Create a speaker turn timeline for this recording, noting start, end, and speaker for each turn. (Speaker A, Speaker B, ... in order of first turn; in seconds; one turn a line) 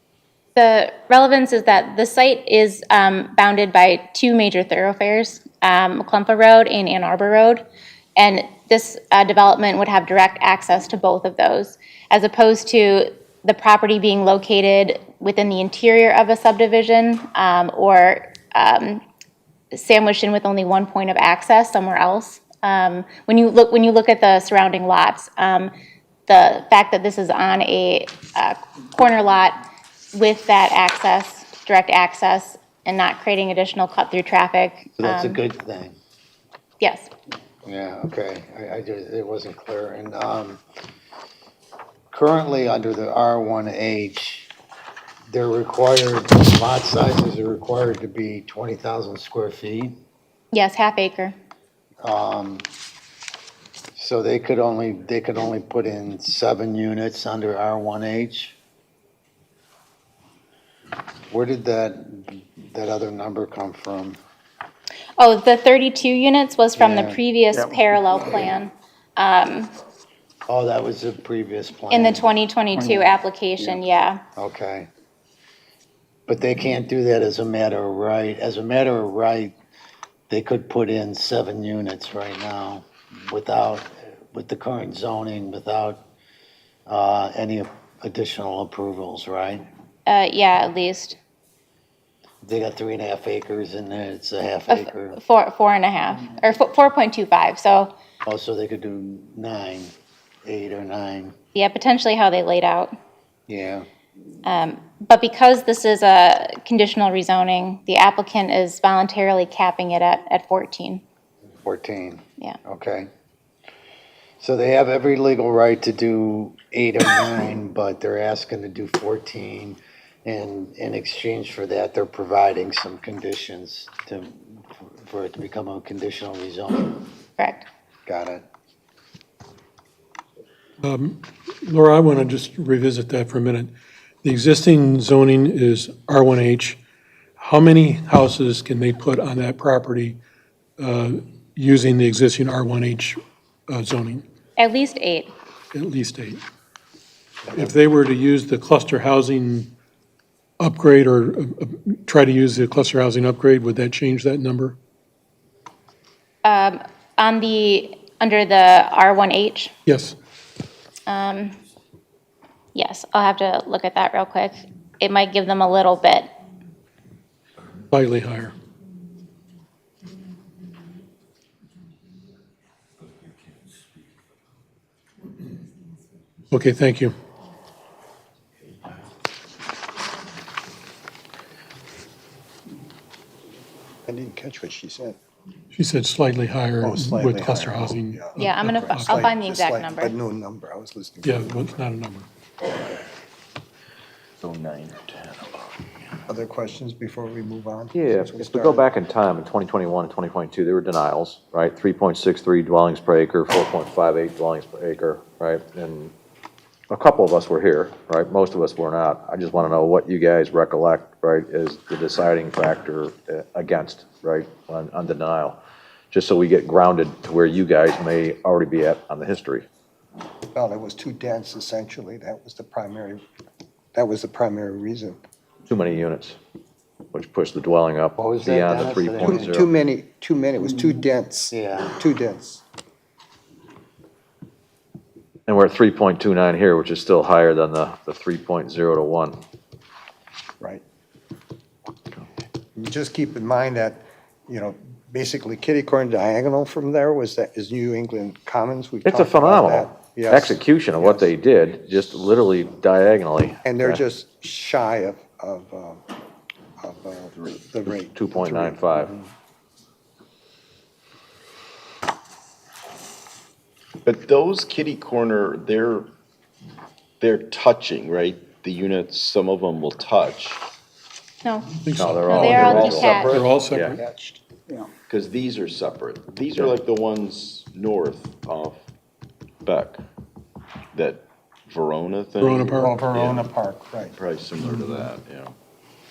Speaker A: 0.6-7.6
Speaker A: 8.2-19.0
Speaker A: 19.7-25.7
Speaker A: 26.3-35.4
Speaker B: 35.0-36.0
Speaker A: 36.8-37.1
Speaker B: 37.6-40.6
Speaker B: 42.1-44.5
Speaker B: 45.3-50.0
Speaker A: 50.5-51.4
Speaker B: 52.0-52.7
Speaker B: 54.0-58.6
Speaker B: 61.3-64.2
Speaker A: 65.2-69.7
Speaker B: 66.8-67.2
Speaker B: 70.5-72.2
Speaker A: 71.9-74.2
Speaker B: 74.4-74.9
Speaker B: 76.3-79.5
Speaker B: 80.3-86.0
Speaker B: 86.9-89.7
Speaker A: 90.1-91.2
Speaker B: 92.4-95.2
Speaker A: 94.7-97.9
Speaker B: 98.3-101.3
Speaker A: 101.5-102.9
Speaker B: 103.5-103.9
Speaker A: 104.4-111.0
Speaker B: 111.6-113.1
Speaker B: 114.4-127.1
Speaker A: 127.4-127.7
Speaker B: 128.1-128.4
Speaker C: 130.8-133.7
Speaker C: 134.2-136.8
Speaker C: 137.4-140.2
Speaker C: 140.8-144.2
Speaker A: 144.6-145.3
Speaker C: 145.7-146.4
Speaker C: 147.5-149.7
Speaker C: 150.6-154.8
Speaker A: 156.4-159.7
Speaker C: 159.9-160.2
Speaker A: 161.1-161.6
Speaker A: 162.8-166.3
Speaker C: 167.9-168.5
Speaker C: 176.5-177.1
Speaker D: 184.1-185.2
Speaker C: 185.7-189.3
Speaker D: 186.8-191.8
Speaker A: 188.4-190.2
Speaker C: 191.2-192.3
Speaker E: 194.4-196.2
Speaker D: 196.3-198.9
Speaker F: 197.9-206.1
Speaker F: 206.9-215.6
Speaker F: 216.1-219.7
Speaker D: 220.5-223.2
Speaker D: 223.9-225.2
Speaker F: 225.7-226.4
Speaker F: 227.1-229.7
Speaker B: 228.2-229.5
Speaker D: 229.2-232.6
Speaker B: 231.5-231.9
Speaker F: 235.5-239.4
Speaker D: 242.8-251.3
Speaker F: 249.1-254.0
Speaker D: 253.7-256.0
Speaker D: 256.8-259.3
Speaker F: 257.9-259.1
Speaker E: 264.1-266.1
Speaker E: 267.2-270.6
Speaker A: 271.4-271.7
Speaker C: 271.9-274.0
Speaker F: 272.0-274.0
Speaker A: 272.2-273.4
Speaker E: 272.5-273.0
Speaker D: 272.6-274.3
Speaker E: 275.1-278.9
Speaker E: 279.6-280.1
Speaker E: 280.9-283.5
Speaker C: 282.4-283.0
Speaker D: 282.8-284.1
Speaker E: 284.1-285.6
Speaker D: 284.8-285.1